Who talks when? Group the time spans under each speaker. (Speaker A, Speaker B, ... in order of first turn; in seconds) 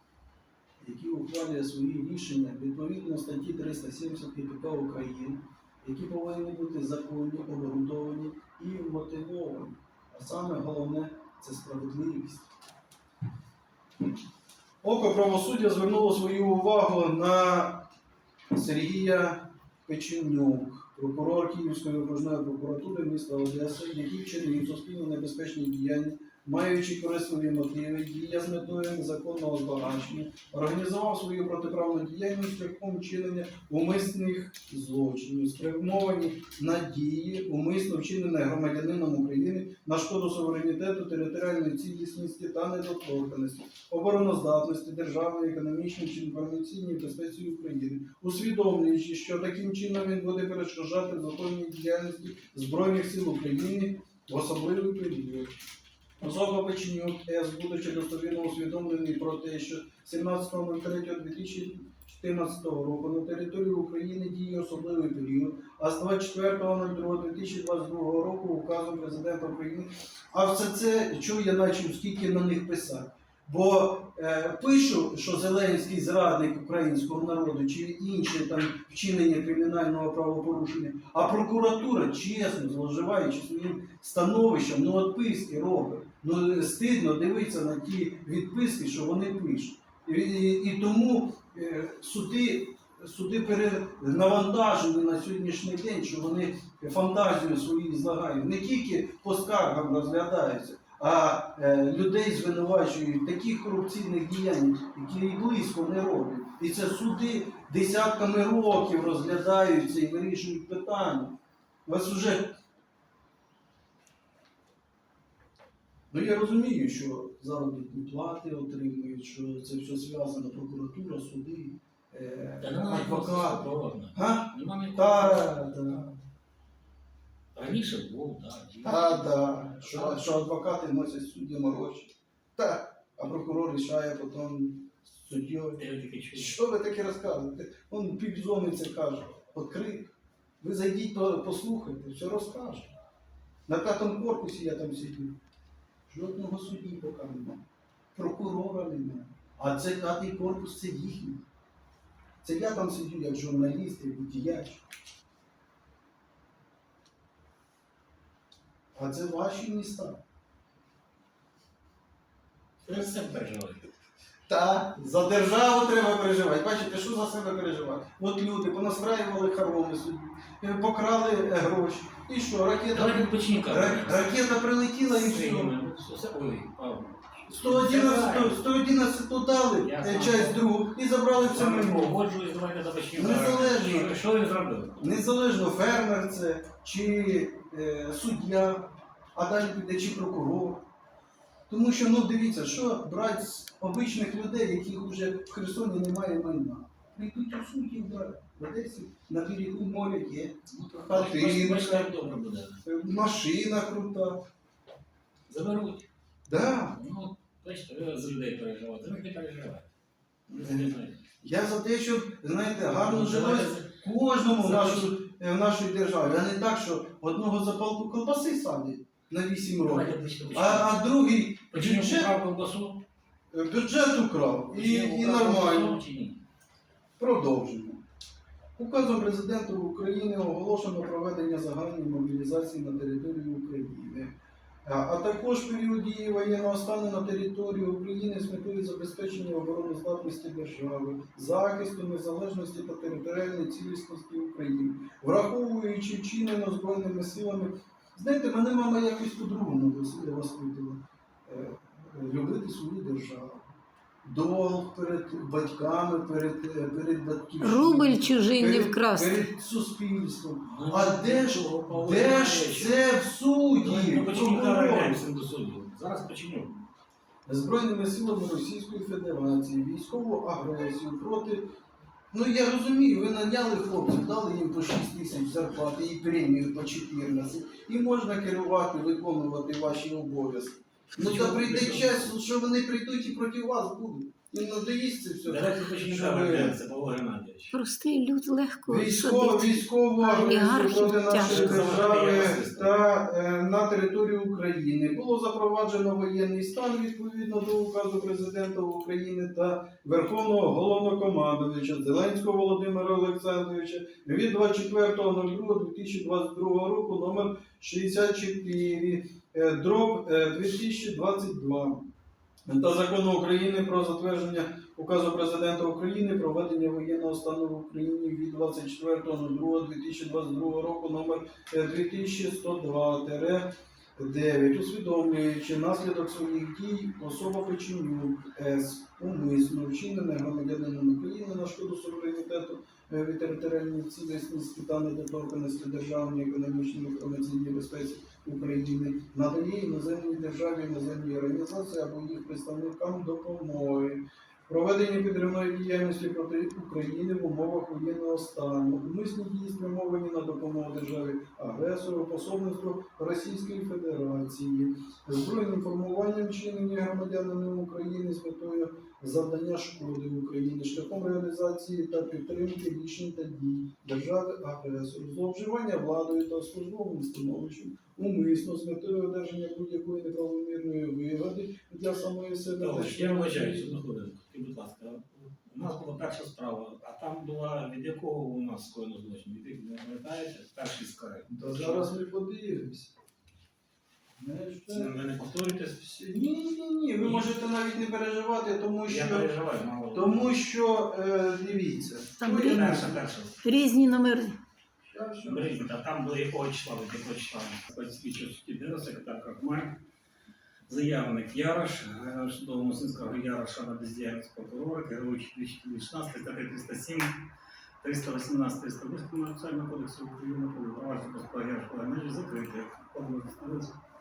Speaker A: 0.8-12.5, 14.8-17.9, 18.5-55.5, 56.2-112.5, 116.1-126.2, 128.8-135.8, 136.3-142.9, 143.7-145.4, 146.1-147.6, 148.1-151.4, 152.4-154.8, 158.9-160.2, 164.5-175.7, 177.5-182.2, 183.1-184.2, 185.0-190.8, 191.7-202.2, 202.8-204.4, 206.5-207.0, 210.5-222.3, 223.5-226.0, 227.2-228.0, 228.8-253.7, 254.2-265.2, 267.4-271.7, 272.3-286.8, 288.9-312.1, 312.6-374.0, 381.5-383.1, 384.4-385.2, 386.0-389.5, 390.1-393.2, 395.0-395.8
Speaker B: 122.6-125.8, 127.5-130.3, 135.8-136.6, 162.8-163.9, 172.9-174.4, 175.0-178.6, 179.8-180.6, 181.3-185.2, 200.7-202.8, 205.5-206.0, 206.9-209.9, 210.5-211.2, 213.0-215.2, 219.8-221.1, 221.7-223.0, 224.7-226.4, 260.6-263.0, 263.8-266.8, 281.1-282.5, 285.4-287.8, 291.3-293.0, 372.8-382.1, 384.9-386.2, 387.2-387.5, 389.1-390.6, 392.5-393.6, 395.4-400.0, 400.9-407.4, 408.0-413.9
Speaker C: 257.6-259.5, 287.7-291.9, 392.4-393.1, 393.6-394.6